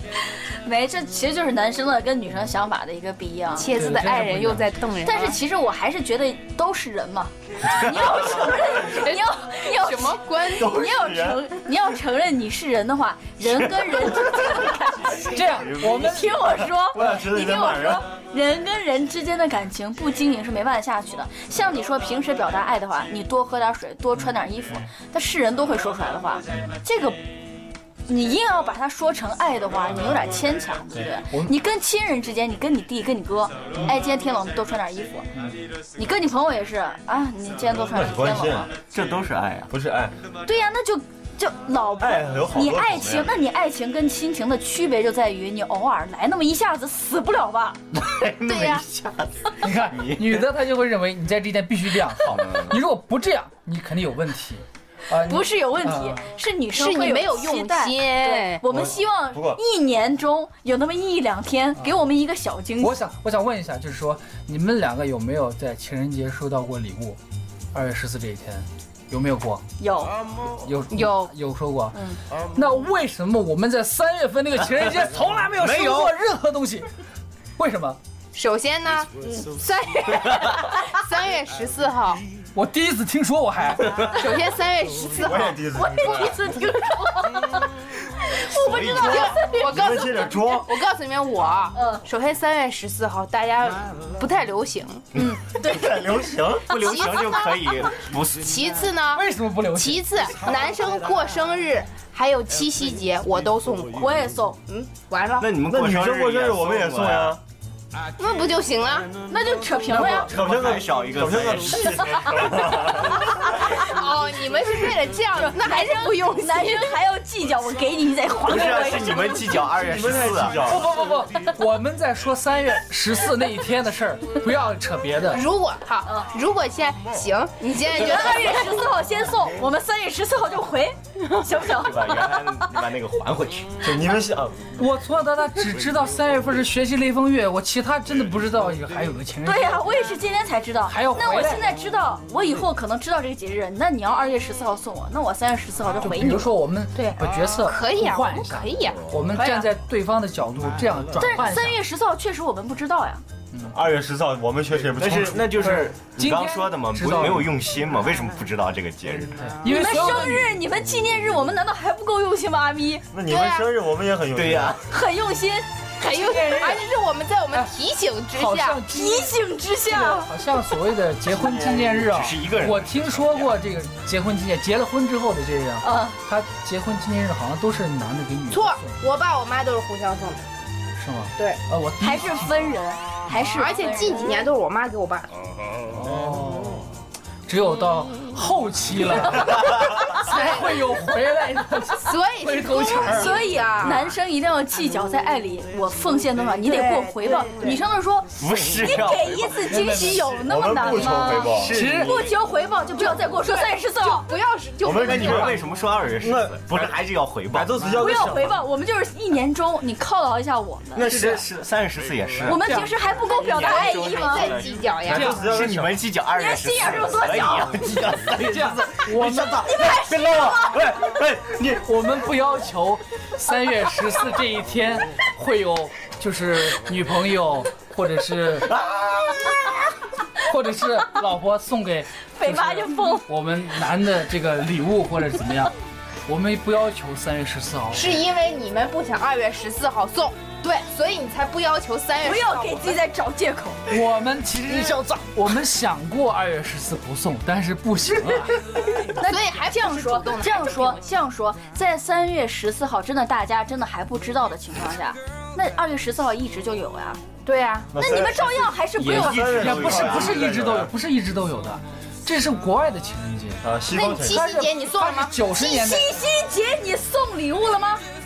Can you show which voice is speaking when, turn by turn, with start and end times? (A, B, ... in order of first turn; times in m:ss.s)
0:00.2-0:03.8 A
0:03.6-0:05.4 B
0:03.7-0:04.7 C
0:05.0-0:27.2 A
0:08.8-0:10.8 B
0:10.6-0:11.4 D
0:15.2-0:16.4 C
0:15.7-0:18.0 D
0:26.5-0:26.8 C
0:28.1-0:35.3 A
0:35.3-0:35.6 C
0:36.0-0:38.7 A
0:37.8-0:38.7 D
0:38.9-0:39.7 E
0:39.7-0:40.2 D
0:40.4-0:47.8 A
0:42.0-0:43.3 D
0:47.9-0:49.3 E
0:48.5-0:48.8 B
0:49.6-0:56.3 C
0:49.9-0:50.3 E
0:52.4-0:52.7 E
0:55.2-1:02.9 A
0:56.7-0:58.6 B
0:58.6-0:59.6 D
1:02.8-1:07.2 C
1:07.7-1:09.6 C
1:09.8-1:10.2 A
1:10.6-1:16.9 C
1:10.9-1:11.3 B
1:15.6-1:16.1 E
1:17.6-1:18.0 C
1:18.3-1:19.1 B
1:19.2-1:20.6 A
1:20.1-1:22.2 B
1:22.5-1:24.0 C
1:24.1-1:25.6 B
1:25.2-1:26.6 D
1:25.7-1:30.0 A
1:28.6-1:29.4 E
1:28.7-1:35.0 B
1:29.4-1:30.8 D
1:31.7-1:32.0 A
1:35.1-1:36.1 A
1:35.1-1:38.4 E
1:35.9-1:36.7 D
1:36.7-1:44.2 B
1:39.1-1:40.2 C
1:44.0-1:44.7 A
1:45.1-1:45.5 B
1:45.4-1:47.4 E
1:45.6-1:47.4 D
1:48.2-1:49.1 B
1:49.3-1:50.3 A
1:49.9-1:52.0 E
1:50.0-1:53.6 D
1:51.9-1:53.9 A
1:53.7-1:56.9 B
1:55.3-1:59.7 A
1:58.4-2:00.6 E
1:59.8-2:00.8 D
2:00.4-2:05.4 C
2:05.3-2:08.9 B
2:07.9-2:12.7 A
2:11.7-2:13.9 E
2:13.8-2:14.7 D
2:14.8-2:20.0 C
2:19.4-2:26.5 A
2:20.8-2:21.6 C
2:26.0-2:31.8 C
2:27.0-2:29.7 B
2:31.2-2:33.2 A
2:33.5-2:33.8 C
2:33.7-2:35.6 D
2:34.8-2:39.4 E
2:35.5-2:37.6 C
2:39.3-2:40.5 C
2:39.6-2:43.0 A
2:43.1-2:44.8 D
2:43.2-2:43.7 B
2:44.3-2:44.8 E
2:44.9-2:45.7 A
2:46.0-2:48.8 B
2:46.0-2:46.8 C
2:48.3-2:59.0 C
2:48.9-2:50.3 A
2:51.3-2:53.5 E
2:55.8-2:56.2 A
2:58.5-3:00.5 B
3:01.0-3:02.8 C
3:02.0-3:04.5 A
3:03.3-3:05.3 B
3:05.9-3:06.9 C
3:07.5-3:13.4 C
3:10.2-3:10.8 B
3:12.0-3:14.2 B
3:13.0-3:24.3 A
3:16.6-3:17.8 B
3:18.4-3:20.0 E
3:19.7-3:20.2 C
3:20.3-3:21.8 D
3:21.4-3:22.3 E
3:21.7-3:22.1 C
3:22.9-3:25.6 B
3:24.8-3:25.6 D
3:25.0-3:28.0 E
3:26.2-3:26.9 D
3:27.5-3:28.6 D
3:28.0-3:31.1 A
3:31.0-3:32.6 E
3:31.1-3:31.4 C
3:32.4-3:34.5 A
3:32.5-3:32.9 C
3:33.2-3:39.5 E
3:33.5-3:35.4 B
3:35.0-3:35.9 D
3:35.1-3:35.9 C
3:36.3-3:37.9 A
3:38.3-3:39.9 C
3:39.3-3:41.6 D
3:39.6-3:40.8 A
3:41.7-3:48.8 C
3:48.8-3:49.4 D
3:50.4-3:55.7 C
3:52.3-3:53.3 A
3:56.2-3:58.2 C
3:57.9-4:03.0 B
4:02.2-4:03.8 A
4:03.9-4:08.8 C
4:09.1-4:17.2 A
4:09.2-4:11.0 B
4:17.4-4:17.9 B
4:17.9-4:20.9 D
4:18.0-4:19.6 A
4:19.0-4:20.4 E
4:19.0-4:23.6 C
4:23.6-4:24.4 D
4:23.9-4:25.3 B
4:24.2-4:26.2 C
4:25.5-4:28.0 A